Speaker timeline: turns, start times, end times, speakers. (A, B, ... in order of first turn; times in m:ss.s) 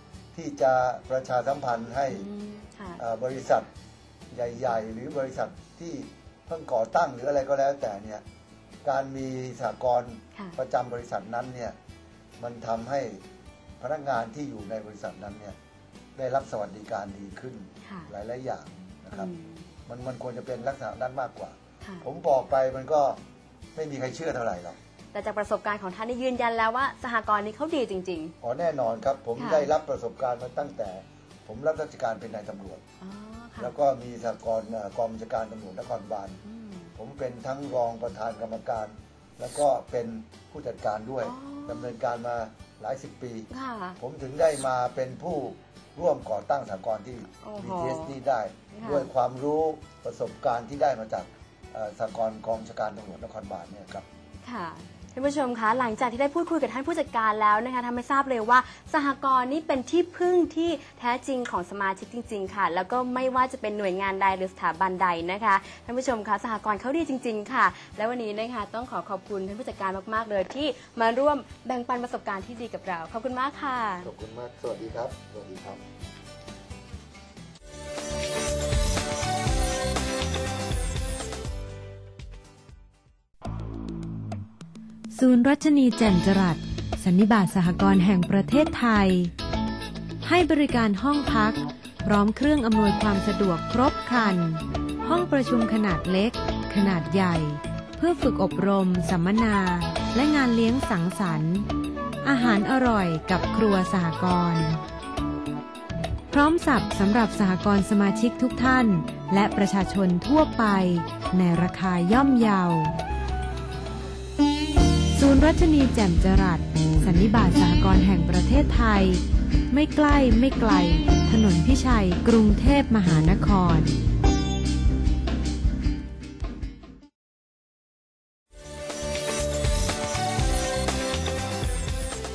0:00.3-0:02.3 A
0:02.1-0:03.0 B
0:03.0-0:03.7 A
0:04.3-0:08.2 A
0:08.8-0:11.8 A
0:12.4-0:13.2 A
0:13.8-0:15.6 A
0:16.2-0:19.3 A
0:17.8-0:18.1 B
0:19.1-0:19.7 B
0:19.9-0:23.2 A
0:23.8-0:24.8 A
0:25.1-0:28.4 B
0:28.4-0:32.8 A
0:29.4-0:29.7 B
0:33.0-0:33.8 B
0:33.6-0:36.4 A
0:36.4-0:36.9 B
0:37.0-0:54.1 A
0:41.2-0:41.9 B
0:43.5-0:44.0 B
0:47.3-0:48.2 B
0:48.7-0:49.1 B
0:54.4-1:14.1 B
1:14.0-1:15.8 A
1:25.1-1:29.3 C
1:30.2-1:41.7 C
1:42.2-1:44.8 C
1:46.3-1:52.9 C
1:55.1-2:03.9 C